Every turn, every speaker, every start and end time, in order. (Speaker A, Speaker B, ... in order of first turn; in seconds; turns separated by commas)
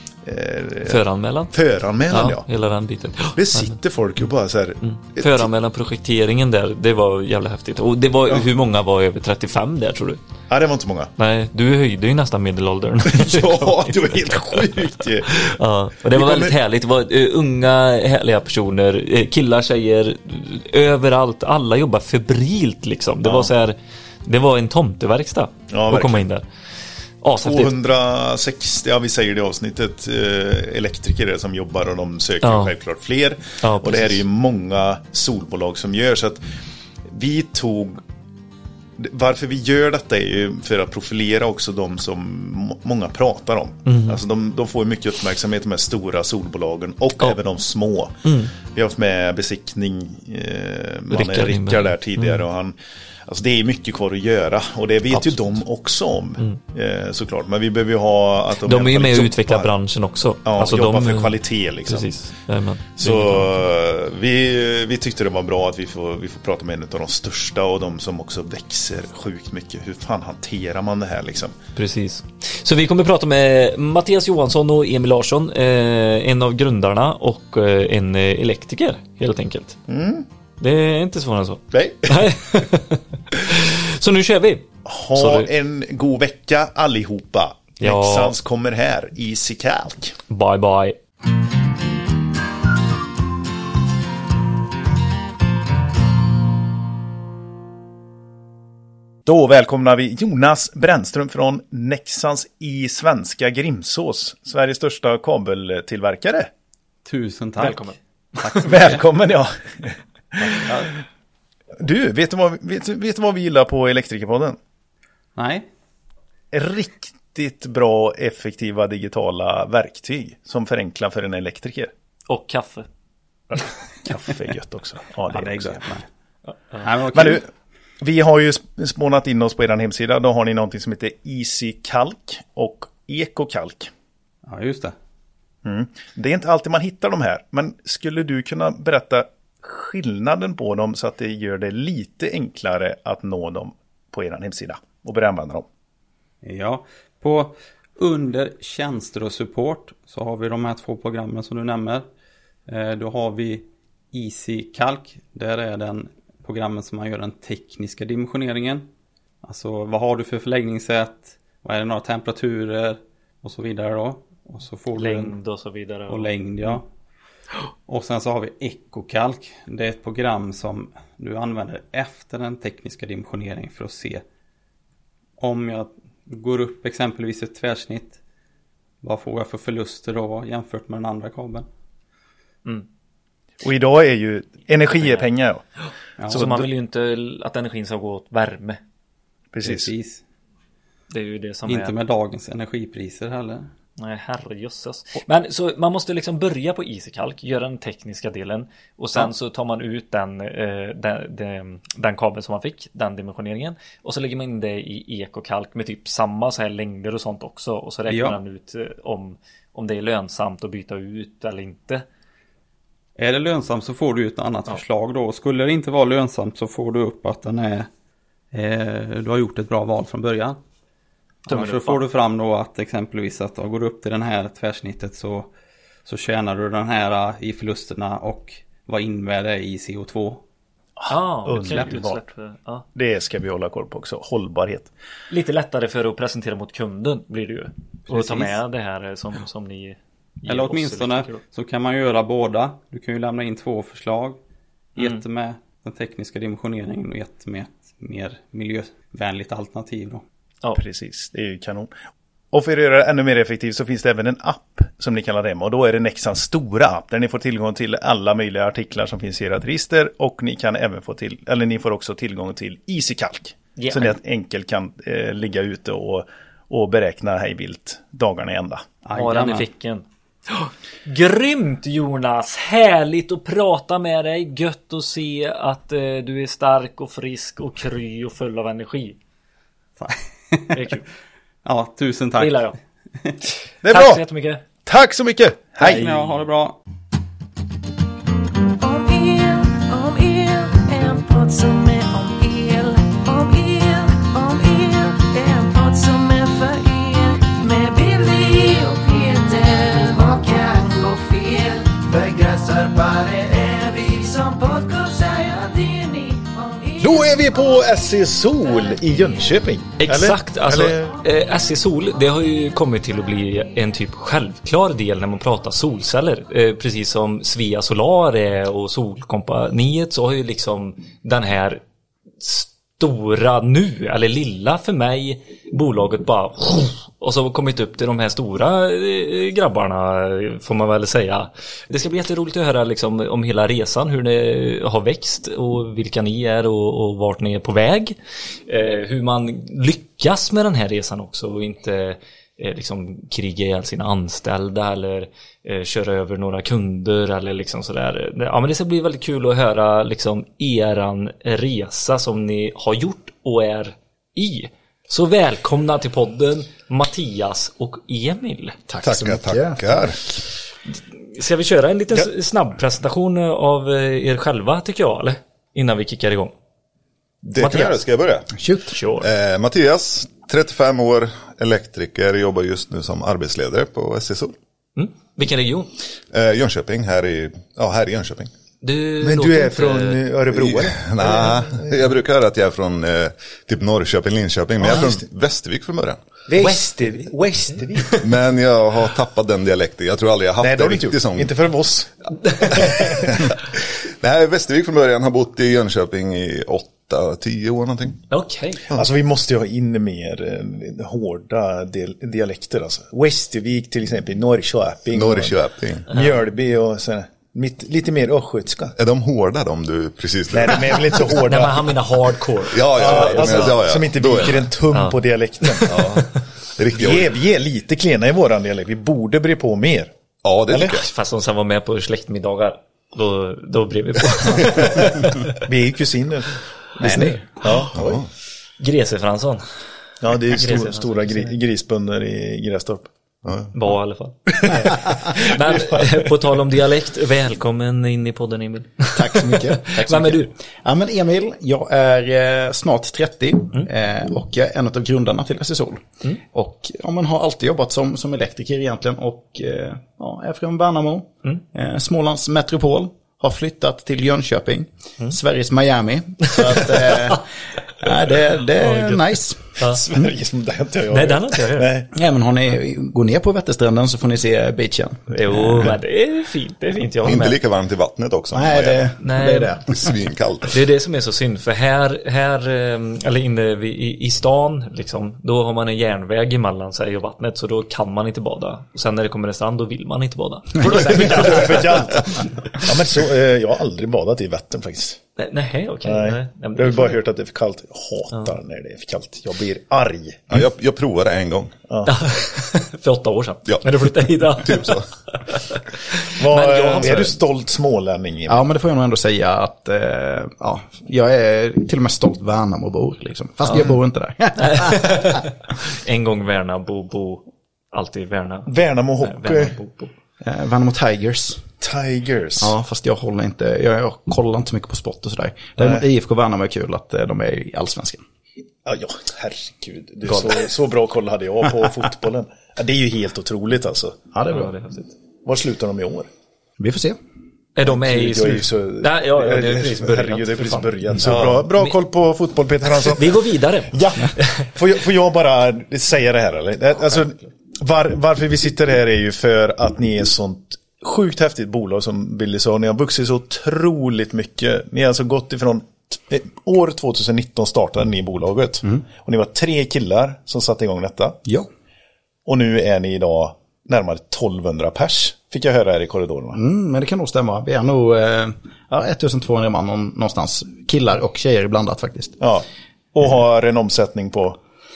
Speaker A: 0.2-1.0, Speaker B: 0.9-1.5, Speaker A: 1.5-2.5, Speaker B: 2.1-3.7, Speaker A: 3.3-5.5, Speaker B: 4.8-10.2, Speaker A: 10.5-11.1, Speaker B: 11.2-13.9, Speaker A: 13.1-15.6, Speaker B: 15.3-26.4, Speaker A: 16.1-16.6, Speaker A: 23.2-23.5, Speaker A: 25.7-26.2, Speaker B: 27.2-27.7, Speaker A: 27.4-36.4, Speaker B: 32.4-32.7, Speaker B: 33.6-34.2, Speaker A: 37.1-38.0, Speaker A: 39.0-52.8, Speaker B: 43.9-44.2, Speaker B: 48.2-48.5, Speaker B: 51.1-52.4, Speaker A: 53.3-59.7, Speaker B: 58.6-63.5, Speaker A: 60.4-62.1, Speaker A: 63.0-71.5, Speaker B: 71.8-79.8, Speaker A: 79.9-80.2, Speaker B: 80.6-85.5, Speaker A: 81.7-82.3, Speaker A: 84.8-90.2, Speaker B: 87.8-88.3, Speaker B: 90.3-91.0, Speaker A: 99.2-106.5, Speaker C: 107.0-109.0, Speaker B: 107.6-108.7, Speaker A: 108.6-110.8, Speaker A: 111.8-114.6, Speaker C: 115.3-115.7, Speaker A: 116.5-121.9, Speaker B: 122.3-122.9, Speaker A: 123.5-125.8, Speaker C: 125.3-126.0, Speaker C: 126.8-127.4, Speaker A: 127.1-127.5, Speaker A: 128.0-133.9, Speaker C: 134.4-134.9, Speaker A: 135.6-145.7, Speaker C: 146.4-152.1, Speaker C: 152.7-158.9, Speaker C: 159.4-165.3, Speaker B: 164.9-166.8, Speaker C: 166.1-166.9, Speaker C: 167.9-174.2, Speaker C: 175.4-178.2, Speaker C: 179.0-181.7, Speaker A: 183.6-185.7, Speaker C: 186.2-186.6, Speaker B: 186.3-188.8, Speaker A: 186.3-186.6, Speaker A: 189.5-189.9, Speaker C: 189.6-190.2, Speaker B: 191.1-191.9, Speaker C: 191.7-193.7, Speaker B: 194.0-212.0, Speaker C: 208.1-208.4, Speaker C: 213.2-217.9, Speaker C: 218.5-220.6, Speaker B: 221.5-222.0, Speaker C: 221.5-225.5, Speaker C: 226.1-230.4, Speaker A: 231.0-232.2, Speaker B: 231.1-232.8, Speaker C: 231.6-232.0, Speaker A: 232.9-234.9, Speaker B: 235.3-241.4, Speaker C: 238.1-238.5, Speaker C: 240.5-244.4, Speaker C: 245.0-250.2, Speaker A: 250.7-251.9, Speaker A: 252.5-268.8, Speaker B: 263.8-264.1, Speaker C: 269.0-269.6, Speaker B: 269.1-279.2, Speaker C: 280.0-280.9, Speaker B: 280.7-281.0, Speaker C: 281.6-282.7, Speaker B: 282.4-282.7, Speaker A: 283.8-284.2, Speaker B: 283.9-284.6, Speaker A: 284.8-286.1, Speaker C: 285.8-286.8, Speaker B: 285.8-286.2, Speaker D: 288.8-308.0, Speaker A: 307.0-311.2, Speaker B: 310.0-321.8, Speaker B: 322.4-338.1, Speaker B: 338.7-358.8, Speaker E: 358.9-360.1, Speaker F: 359.0-360.2, Speaker B: 361.3-366.5, Speaker F: 367.4-368.5, Speaker B: 367.6-368.0, Speaker E: 368.6-368.9, Speaker B: 368.9-369.3, Speaker F: 369.2-374.6, Speaker B: 374.9-375.9, Speaker F: 376.3-378.5, Speaker B: 378.8-380.2, Speaker A: 379.2-381.9, Speaker F: 380.6-386.2, Speaker A: 384.9-385.1, Speaker A: 386.5-388.2, Speaker B: 386.6-387.0, Speaker F: 388.2-391.6, Speaker A: 390.6-393.1, Speaker F: 392.6-393.6, Speaker F: 394.2-398.2, Speaker B: 398.3-398.8, Speaker A: 398.9-405.6, Speaker F: 405.1-406.1, Speaker A: 406.1-408.9, Speaker F: 409.0-411.3, Speaker A: 410.5-411.9, Speaker B: 411.4-413.8, Speaker F: 412.7-414.6, Speaker A: 412.9-416.1, Speaker B: 414.9-416.0, Speaker F: 415.9-417.3, Speaker A: 416.9-420.1, Speaker F: 420.4-421.0, Speaker A: 420.7-421.0, Speaker B: 420.9-425.5, Speaker A: 425.6-428.0, Speaker E: 427.0-427.4, Speaker F: 427.9-428.3, Speaker B: 428.8-429.6, Speaker A: 430.2-433.1, Speaker B: 430.4-431.5, Speaker F: 433.4-433.7, Speaker B: 433.7-440.5, Speaker A: 434.6-436.6, Speaker E: 439.1-457.5, Speaker E: 458.0-459.7, Speaker A: 458.8-459.1, Speaker A: 459.8-462.1, Speaker B: 461.1-462.0, Speaker E: 462.1-465.9, Speaker B: 465.3-467.6, Speaker F: 467.2-469.1, Speaker E: 468.5-470.1, Speaker B: 469.2-469.8, Speaker F: 469.9-470.8, Speaker B: 470.7-482.2, Speaker A: 480.8-485.2, Speaker B: 485.4-487.1, Speaker A: 486.0-490.6, Speaker F: 490.5-491.7, Speaker B: 492.1-497.4, Speaker F: 494.5-495.1, Speaker A: 496.3-498.6, Speaker E: 498.5-505.4, Speaker B: 504.6-510.1, Speaker A: 508.7-509.8, Speaker E: 510.4-511.7, Speaker A: 511.8-512.7, Speaker E: 512.6-518.2, Speaker A: 518.8-524.2, Speaker E: 524.3-524.7, Speaker B: 524.5-525.1, Speaker A: 525.4-526.3, Speaker E: 526.8-527.2, Speaker B: 527.8-531.9, Speaker A: 527.8-533.4, Speaker B: 533.0-534.7, Speaker A: 533.9-551.4, Speaker A: 552.5-556.6, Speaker E: 556.5-562.4, Speaker A: 562.4-564.6